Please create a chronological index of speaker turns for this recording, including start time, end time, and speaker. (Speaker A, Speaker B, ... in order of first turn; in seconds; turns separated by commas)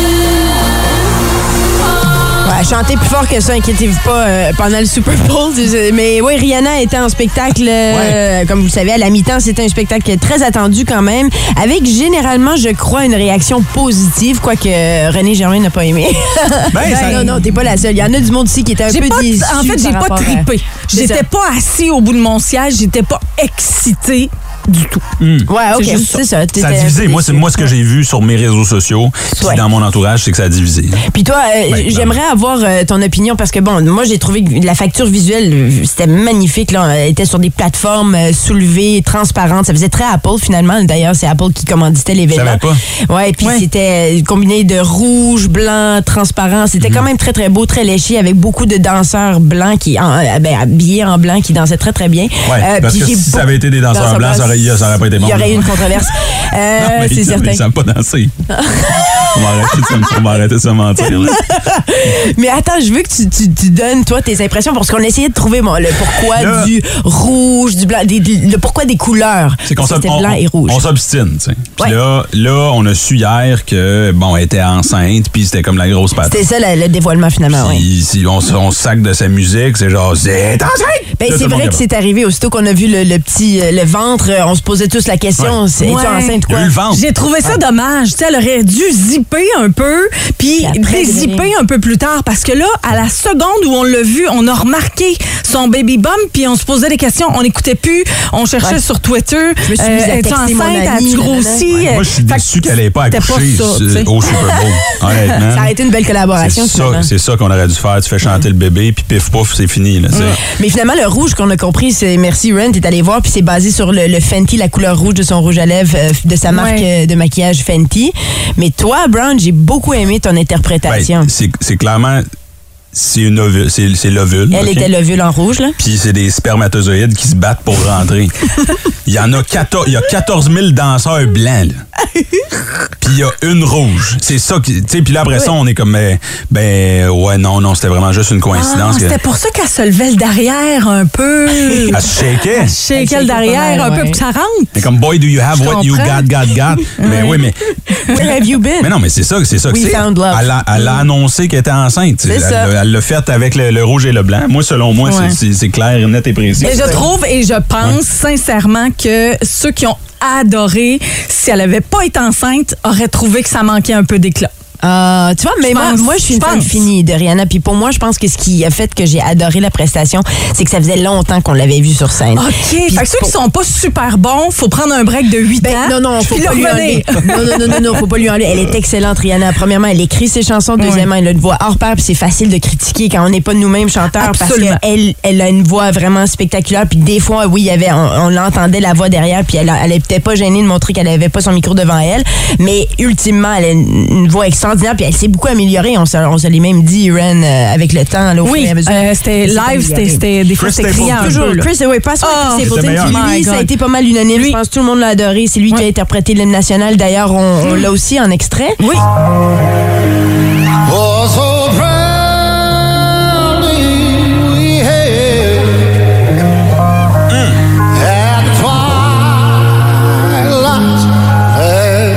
Speaker A: 2.4-21.3, Speaker B: 7.9-8.2, Speaker B: 16.7-17.2, Speaker C: 16.8-17.3, Speaker C: 18.9-25.0, Speaker B: 25.2-25.5, Speaker A: 25.5-27.7, Speaker C: 25.7-26.2, Speaker B: 26.6-31.0, Speaker A: 29.4-29.6, Speaker A: 31.1-57.6, Speaker B: 31.7-32.2, Speaker B: 42.3-42.8, Speaker B: 52.5-56.1, Speaker B: 56.8-58.3, Speaker A: 58.5-60.2, Speaker B: 59.3-61.4, Speaker A: 61.0-70.8, Speaker B: 66.3-66.7, Speaker B: 69.7-76.4, Speaker A: 76.2-77.8, Speaker B: 77.5-81.8, Speaker A: 81.2-86.7, Speaker C: 85.8-86.4, Speaker B: 86.5-87.5, Speaker C: 86.9-104.1, Speaker A: 90.6-91.5, Speaker A: 99.6-101.7, Speaker B: 101.7-105.7, Speaker A: 105.4-107.1, Speaker B: 106.4-110.4, Speaker A: 110.5-121.3, Speaker C: 116.5-116.9, Speaker B: 120.9-122.2, Speaker B: 122.9-124.9, Speaker A: 124.5-125.8, Speaker B: 125.8-128.5, Speaker B: 129.1-131.8, Speaker B: 133.0-139.2, Speaker C: 138.5-144.8, Speaker A: 141.7-141.9, Speaker B: 141.9-142.7, Speaker A: 142.9-144.2, Speaker B: 144.8-147.8, Speaker C: 145.5-146.3, Speaker C: 147.0-147.4, Speaker A: 148.1-148.9, Speaker B: 148.8-157.0, Speaker A: 149.7-151.0, Speaker A: 152.2-152.7, Speaker C: 155.0-155.4, Speaker C: 156.6-164.5, Speaker A: 156.6-157.0, Speaker A: 164.8-173.3, Speaker C: 165.6-166.8, Speaker C: 172.3-177.8, Speaker A: 175.6-200.3, Speaker C: 180.8-181.1, Speaker C: 184.2-184.8, Speaker C: 198.4-201.7, Speaker B: 200.6-201.4, Speaker A: 200.9-208.9, Speaker C: 202.2-203.7, Speaker B: 202.6-203.2, Speaker B: 217.3-217.6